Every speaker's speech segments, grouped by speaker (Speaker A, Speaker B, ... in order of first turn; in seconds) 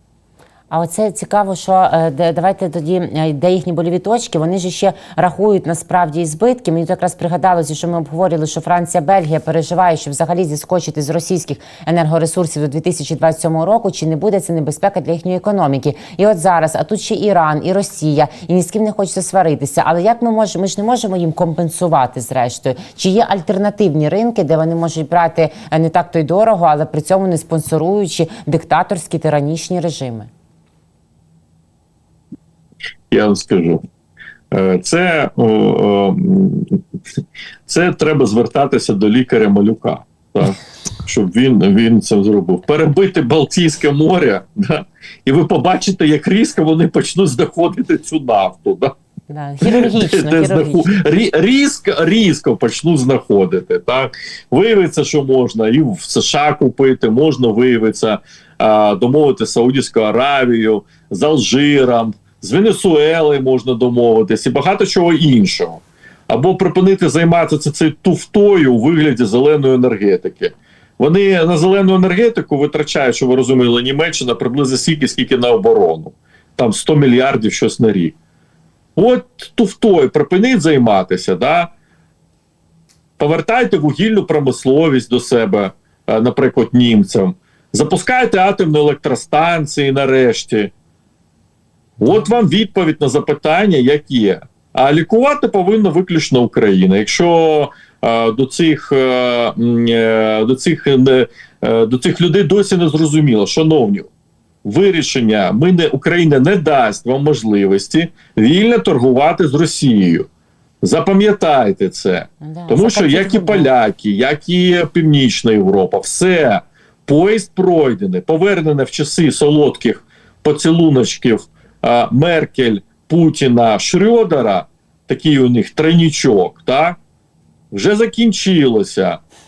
Speaker A: 0.7-30.3, 49.3-50.9, 112.4-113.7
Speaker B: 33.1-33.8, 34.5-36.8, 37.7-48.9, 49.6-78.1, 79.0-81.7, 83.2-90.7, 92.0-104.1, 104.6-110.3, 110.8-127.0, 127.7-129.2